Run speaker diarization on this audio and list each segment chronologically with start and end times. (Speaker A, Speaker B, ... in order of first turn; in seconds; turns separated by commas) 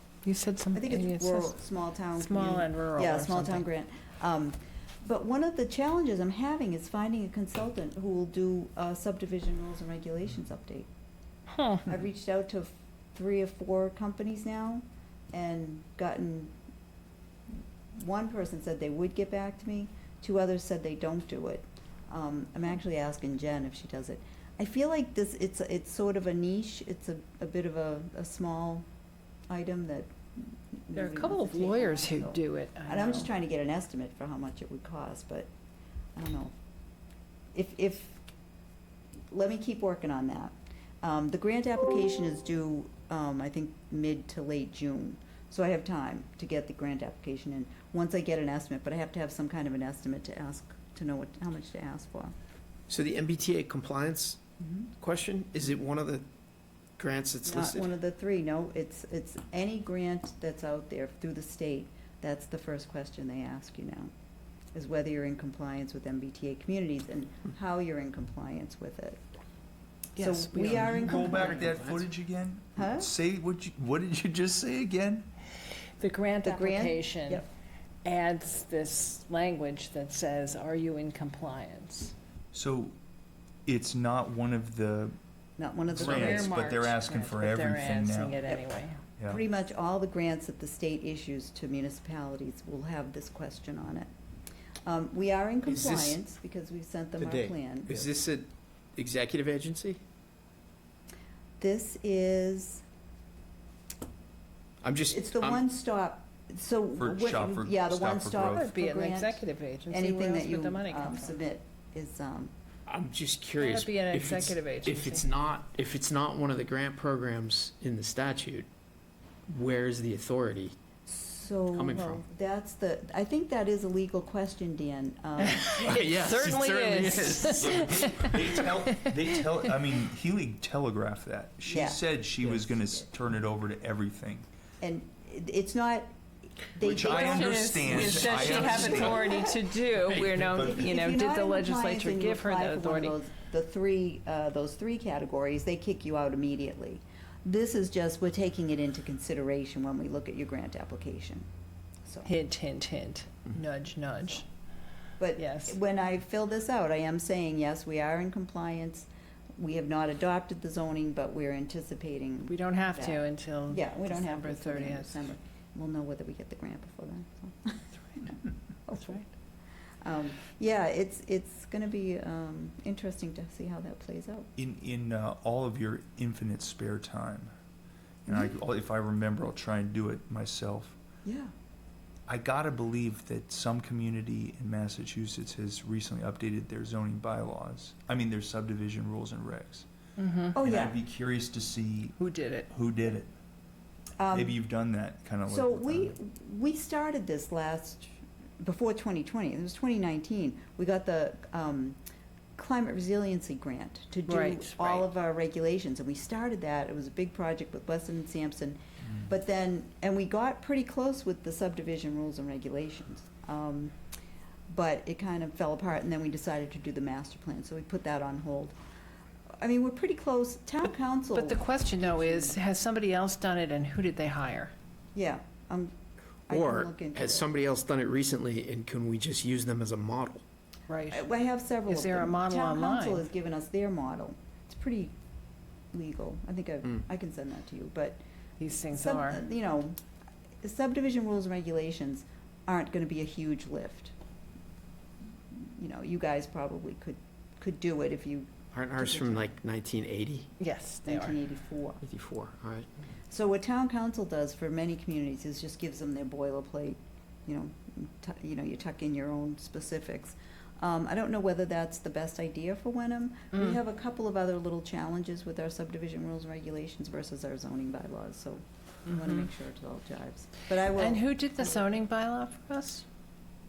Speaker A: 0.2-1.6, Speaker B: 0.7-10.9, Speaker A: 2.1-3.6, Speaker A: 11.6-11.8, Speaker B: 11.9-16.5, Speaker B: 17.9-28.8, Speaker B: 29.5-35.5, Speaker A: 30.9-33.3, Speaker B: 36.2-36.5, Speaker B: 37.5-38.2, Speaker B: 39.3-52.3, Speaker C: 52.9-54.4, Speaker B: 54.6-54.9, Speaker C: 55.0-56.2, Speaker C: 57.0-57.9, Speaker B: 57.5-64.1, Speaker B: 64.8-69.2, Speaker A: 70.2-71.3, Speaker B: 70.2-71.8, Speaker D: 70.7-75.3, Speaker C: 71.1-72.1, Speaker B: 72.8-73.1, Speaker A: 76.0-77.5, Speaker B: 76.4-77.5, Speaker A: 78.0-82.1, Speaker D: 82.5-83.0, Speaker D: 83.7-85.2, Speaker B: 85.6-86.5, Speaker D: 85.9-88.5, Speaker A: 86.0-89.0, Speaker B: 89.2-94.1, Speaker B: 94.9-97.9, Speaker C: 95.7-96.2, Speaker C: 97.2-100.0, Speaker B: 101.6-102.8, Speaker C: 104.8-105.6, Speaker B: 105.1-112.5, Speaker D: 107.0-108.7, Speaker A: 108.5-111.4, Speaker C: 112.9-118.7, Speaker A: 113.6-115.2, Speaker C: 119.5-120.8, Speaker B: 121.1-125.8, Speaker C: 121.7-122.2, Speaker A: 125.4-129.1, Speaker C: 125.8-128.6, Speaker D: 127.6-134.5, Speaker B: 131.7-132.0, Speaker C: 132.4-132.7, Speaker B: 134.8-136.1, Speaker B: 136.6-139.6, Speaker D: 136.8-139.3, Speaker A: 136.9-143.2, Speaker D: 140.4-140.9, Speaker B: 140.5-151.5, Speaker B: 152.1-152.3, Speaker A: 152.2-154.5, Speaker B: 155.2-169.2, Speaker A: 155.4-155.8, Speaker A: 162.5-165.2, Speaker B: 170.0-174.5, Speaker D: 174.6-177.5, Speaker D: 178.2-181.0, Speaker B: 178.3-178.5, Speaker B: 181.2-181.5, Speaker D: 182.3-189.9, Speaker A: 190.2-190.6, Speaker B: 190.6-191.0, Speaker D: 190.6-192.2, Speaker A: 192.2-192.7, Speaker D: 192.7-193.3, Speaker B: 194.2-194.6, Speaker D: 194.3-196.2, Speaker B: 195.5-202.0, Speaker B: 202.6-213.9, Speaker A: 204.3-205.1, Speaker B: 214.7-218.8, Speaker B: 219.6-222.6, Speaker A: 221.3-224.7, Speaker B: 225.2-225.9, Speaker B: 226.5-227.5, Speaker C: 226.5-230.4, Speaker A: 230.9-231.2, Speaker B: 231.1-235.1, Speaker A: 231.9-233.3, Speaker B: 235.9-238.2, Speaker A: 238.6-239.4, Speaker B: 238.9-240.0, Speaker B: 240.6-244.1, Speaker B: 245.6-249.5, Speaker C: 248.7-250.5, Speaker A: 250.6-251.4, Speaker B: 251.1-252.0, Speaker C: 252.0-252.9, Speaker B: 253.3-271.9, Speaker A: 269.1-269.5, Speaker A: 270.9-273.1